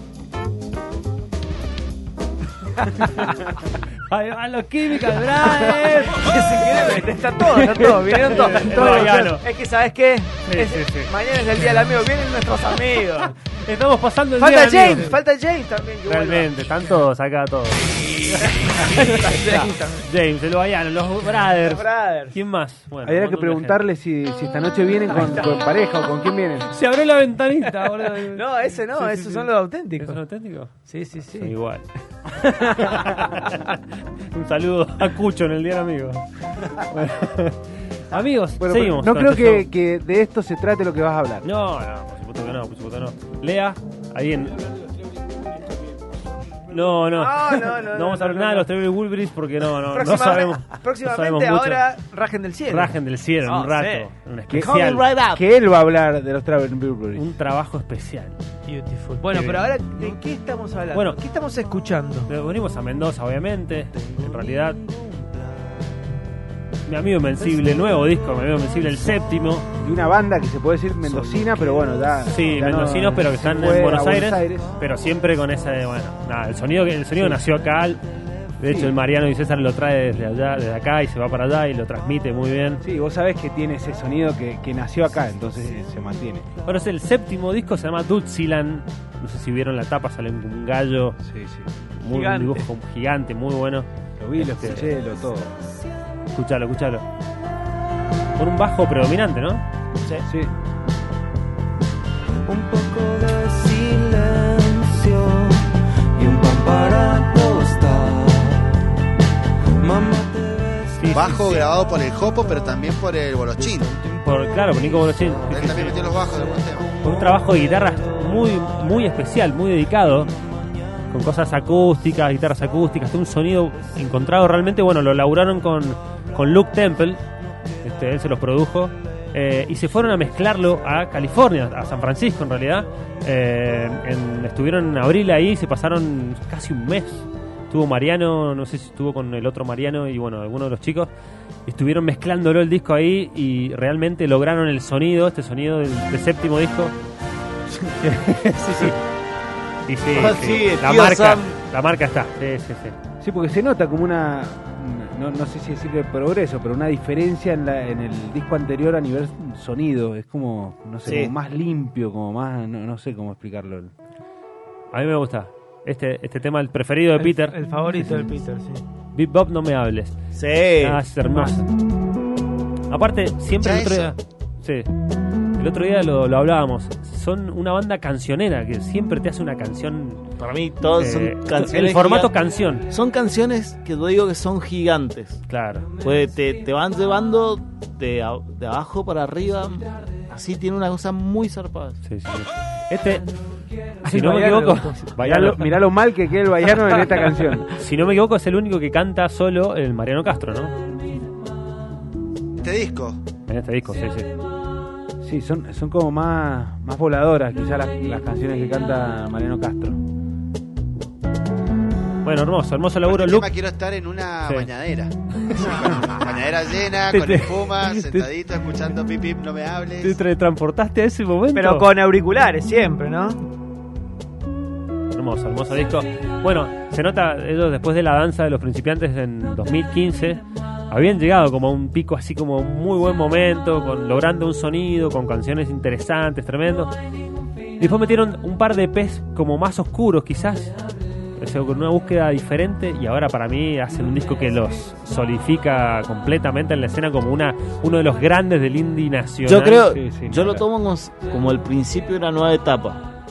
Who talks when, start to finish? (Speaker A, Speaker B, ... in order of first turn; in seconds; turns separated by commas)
Speaker A: 2.8-3.3, Speaker A: 4.0-6.4, Speaker B: 6.1-13.4, Speaker A: 7.6-9.5, Speaker A: 10.4-11.1, Speaker A: 13.6-15.2, Speaker B: 14.4-16.5, Speaker A: 16.1-23.9, Speaker B: 18.8-20.0, Speaker B: 21.6-22.3, Speaker C: 23.0-26.7, Speaker A: 26.7-31.9, Speaker B: 27.9-30.2, Speaker B: 30.9-31.5, Speaker A: 32.4-33.8, Speaker A: 34.3-39.7, Speaker C: 38.6-41.5, Speaker A: 41.4-44.6, Speaker A: 46.7-51.9, Speaker B: 47.1-48.7, Speaker B: 49.9-54.1, Speaker A: 52.7-55.0, Speaker D: 54.6-55.4, Speaker C: 55.3-57.3, Speaker A: 57.1-58.4, Speaker B: 58.7-62.3, Speaker A: 59.3-59.7, Speaker A: 60.9-61.2, Speaker A: 62.3-64.8, Speaker A: 66.9-69.7, Speaker C: 69.8-74.7, Speaker A: 71.0-71.6, Speaker A: 72.3-78.0, Speaker C: 77.2-77.4, Speaker A: 78.6-82.8, Speaker C: 78.6-79.0, Speaker C: 82.8-86.5, Speaker A: 86.6-91.2, Speaker C: 91.2-91.7, Speaker A: 92.0-94.9, Speaker B: 92.1-92.7, Speaker C: 94.2-95.6, Speaker A: 96.3-97.0, Speaker A: 98.4-99.6, Speaker C: 100.3-100.5, Speaker E: 102.5-108.8, Speaker E: 109.8-110.8, Speaker A: 111.0-111.7, Speaker F: 111.1-113.9, Speaker A: 114.2-116.1, Speaker F: 115.5-116.9, Speaker A: 117.0-120.3, Speaker A: 121.1-127.2, Speaker A: 127.8-141.1, Speaker A: 141.7-146.9, Speaker A: 148.0-149.0, Speaker A: 149.9-153.0, Speaker D: 150.1-151.6, Speaker C: 153.2-163.9, Speaker D: 161.1-161.3, Speaker A: 164.9-168.3, Speaker B: 167.2-168.8, Speaker A: 169.1-170.2, Speaker D: 170.3-171.1, Speaker A: 170.8-171.7, Speaker A: 172.9-174.9, Speaker F: 173.6-174.1, Speaker A: 175.6-180.2, Speaker D: 180.4-182.3, Speaker A: 180.9-182.9, Speaker D: 182.9-185.5, Speaker A: 185.5-185.9, Speaker D: 186.0-192.0, Speaker A: 192.0-193.3, Speaker A: 194.0-195.8, Speaker B: 194.1-195.1, Speaker C: 195.2-197.7, Speaker A: 197.7-200.7, Speaker F: 202.6-203.2, Speaker A: 203.5-204.3, Speaker C: 205.2-210.0, Speaker A: 212.2-213.5, Speaker F: 213.1-220.2, Speaker A: 217.2-217.4, Speaker A: 220.0-221.9, Speaker B: 221.5-223.4, Speaker A: 225.1-236.9, Speaker A: 237.8-240.8, Speaker A: 241.4-249.9, Speaker D: 249.5-253.0, Speaker C: 249.9-250.6